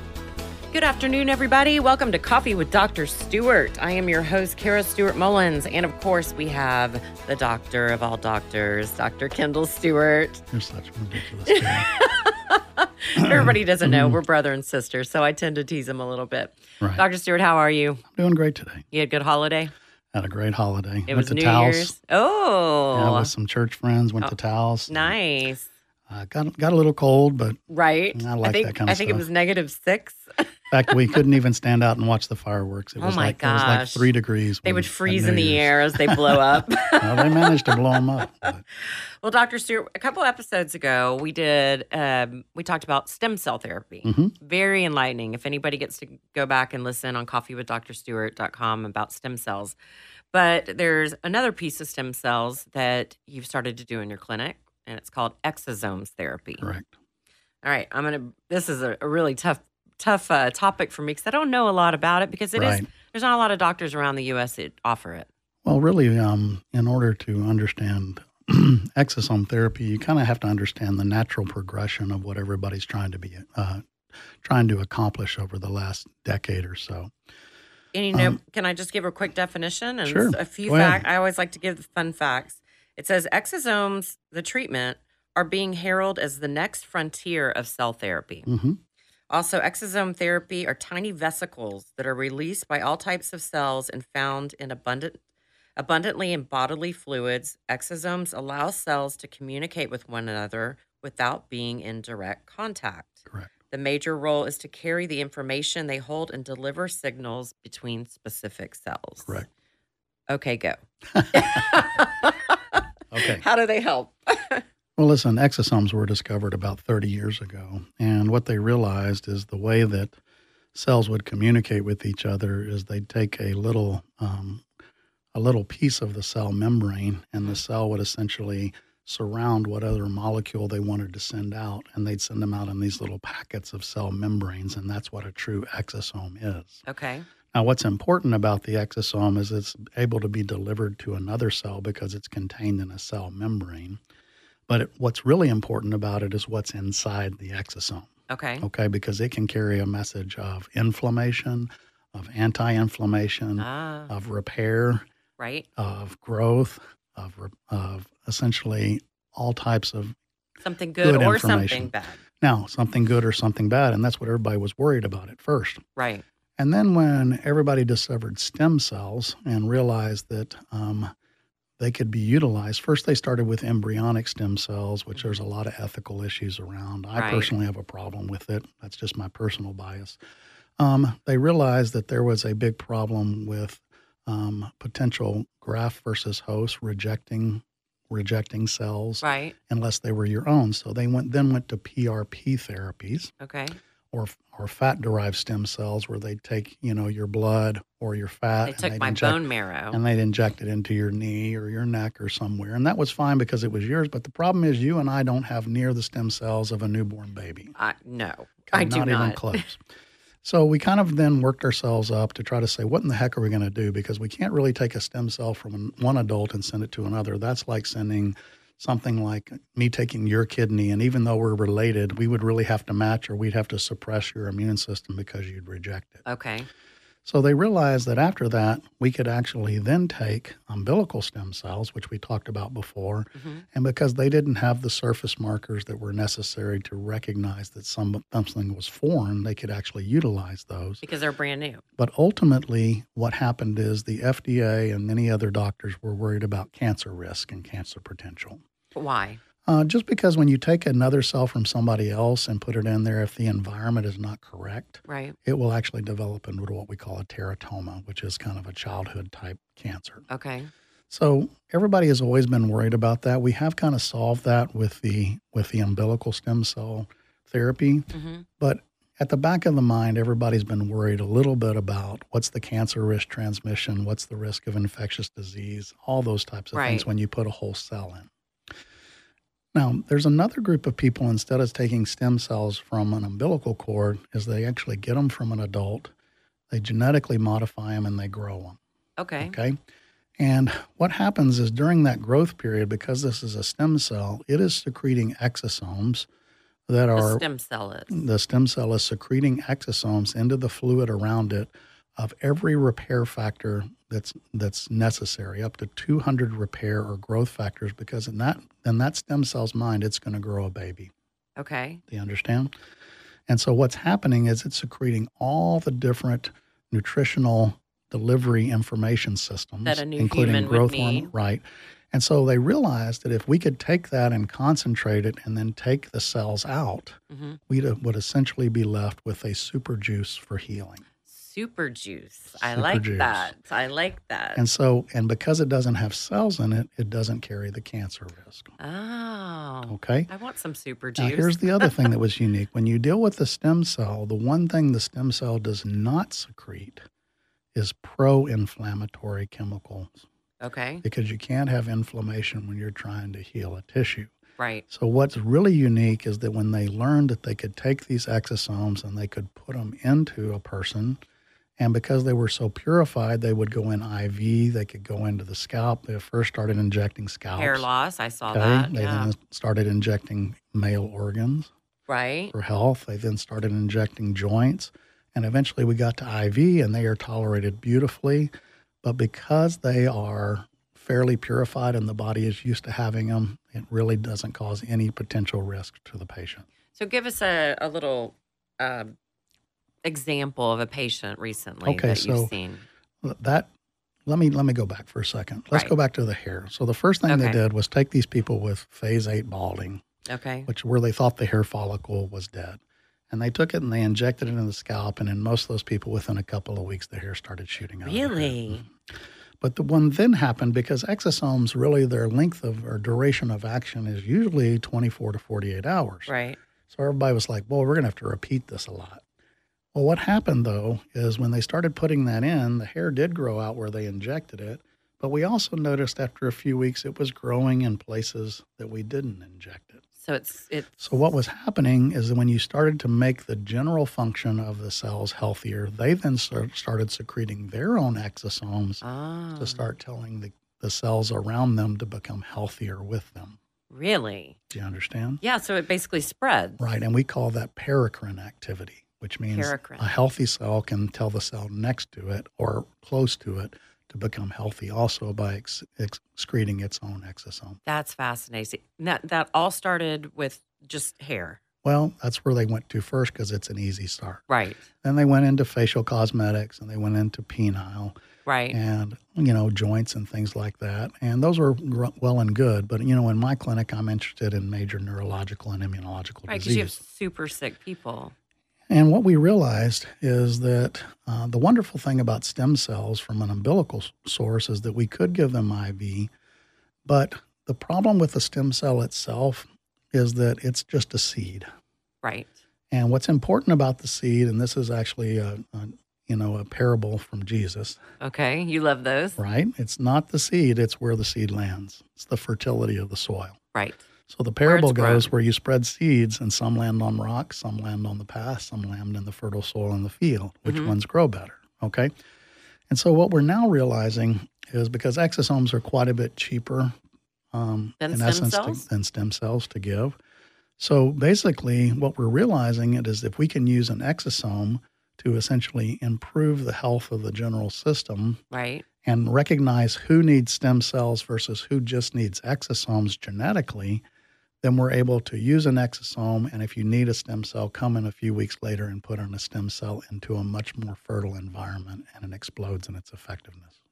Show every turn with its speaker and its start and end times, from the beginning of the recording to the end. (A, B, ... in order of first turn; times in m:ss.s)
0:00.7-0:10.5 A
0:10.5-0:11.9 B
0:11.5-0:18.0 A
0:13.2-0:14.2 B
0:18.1-0:18.9 B
0:18.9-0:19.7 A
0:20.1-0:22.0 B
0:21.1-0:23.3 A
0:22.9-0:25.1 B
0:24.9-0:25.7 A
0:26.1-0:27.6 B
0:27.7-0:30.5 A
0:28.1-0:29.3 B
0:30.7-0:38.6 B
0:33.0-0:34.1 A
0:34.6-0:38.0 A
0:38.8-0:49.8 A
0:44.0-0:44.3 B
0:50.3-0:56.7 A
0:56.6-0:56.9 B
0:57.6-1:05.3 A
1:02.6-1:02.9 B
1:05.6-1:13.8 B
1:14.4-1:17.1 B
1:17.9-1:28.5 A
1:18.1-1:18.4 B
1:20.0-1:21.1 B
1:28.5-1:28.8 B
1:29.3-1:35.2 A
1:35.8-1:49.4 A
1:50.3-1:50.8 A
1:51.2-1:51.6 B
1:51.3-1:54.6 A
1:53.1-1:53.4 B
1:55.0-2:00.2 B
2:00.7-2:04.7 B
2:05.3-2:16.8 B
2:16.9-2:17.3 A
2:17.5-2:24.0 B
2:24.7-2:28.1 B
2:28.3-2:28.7 A
2:28.6-2:35.0 B
2:33.6-2:34.1 A
2:35.4-2:35.7 A
2:35.8-2:40.2 B
2:40.6-2:42.2 A
2:41.0-2:45.8 B
2:46.0-2:46.2 A
2:46.6-2:51.1 B
2:51.8-3:00.2 B
2:57.2-2:57.5 A
3:00.8-3:13.3 B
3:09.2-3:09.6 A
3:13.4-3:13.8 A
3:14.1-3:27.7 B
3:18.6-3:20.0 A
3:27.8-3:29.6 A
3:28.7-3:29.8 B
3:30.4-3:46.2 B
3:46.3-3:46.7 A
3:47.2-4:01.0 B
3:53.4-3:53.6 A
4:01.0-4:01.8 A
4:02.0-4:08.6 B
4:09.0-4:09.4 A
4:09.7-4:20.2 B
4:15.1-4:15.4 A
4:20.3-4:20.7 A
4:21.1-4:38.3 B
4:28.1-4:28.5 A
4:36.7-4:37.1 A
4:39.7-4:46.1 B
4:46.7-4:48.8 B
4:49.2-4:49.6 A
4:49.4-4:49.8 B
4:50.4-4:56.3 B
4:56.9-4:57.4 B
4:57.2-4:58.2 A
4:58.1-5:11.1 B
5:11.6-5:12.0 A
5:12.1-5:12.7 B
5:13.5-5:27.2 B
5:19.8-5:21.3 A
5:27.3-5:27.6 A
5:27.7-5:31.0 B
5:31.3-5:34.6 A
5:32.6-5:33.5 B
5:34.6-5:38.7 B
5:38.8-5:42.0 A
5:39.9-5:40.3 B
5:41.2-5:47.0 B
5:47.7-5:50.2 B
5:50.6-5:51.0 A
5:51.0-5:54.3 B
5:54.6-5:54.8 A
5:54.9-6:01.2 B
6:01.8-6:07.9 B
6:07.6-6:09.3 A
6:08.5-6:11.7 B
6:12.1-6:12.5 A
6:12.5-6:18.5 B
6:19.0-6:26.7 B
6:27.0-6:29.1 A
6:30.0-6:32.8 A
6:31.8-6:32.5 B
6:33.2-6:33.7 B
6:34.3-6:40.0 B
6:37.3-6:37.6 A
6:40.3-6:40.7 A
6:40.7-6:42.8 B
6:43.3-6:48.9 B
6:48.0-6:48.8 A
6:49.6-6:56.3 B
6:56.3-6:56.6 A
6:56.9-6:59.2 B
6:59.9-7:10.0 B
7:10.2-7:11.0 A
7:11.0-7:19.0 B
7:19.0-7:19.8 A
7:19.6-7:23.6 B
7:23.9-7:24.6 A
7:24.7-7:25.4 B
7:25.4-7:26.9 A
7:26.8-7:37.8 B
7:29.5-7:30.1 A
7:37.9-7:41.6 A
7:41.8-7:44.4 B
7:44.5-7:44.9 A
7:45.0-7:48.2 B
7:48.5-7:48.8 A
7:48.7-7:57.0 B
7:56.5-7:58.3 A
7:58.9-8:06.3 B
8:07.1-8:11.7 B
8:12.2-8:12.6 A
8:12.9-8:18.0 B
8:18.2-8:19.4 A
8:19.4-8:23.6 B
8:23.7-8:24.0 A
8:24.3-8:32.1 B
8:24.6-8:25.3 A
8:30.6-8:31.0 A
8:32.9-8:36.9 B
8:37.5-8:40.2 B
8:38.0-8:38.8 A
8:40.8-8:48.4 B
8:48.5-8:48.8 A
8:49.0-8:54.0 B
8:54.6-9:03.7 B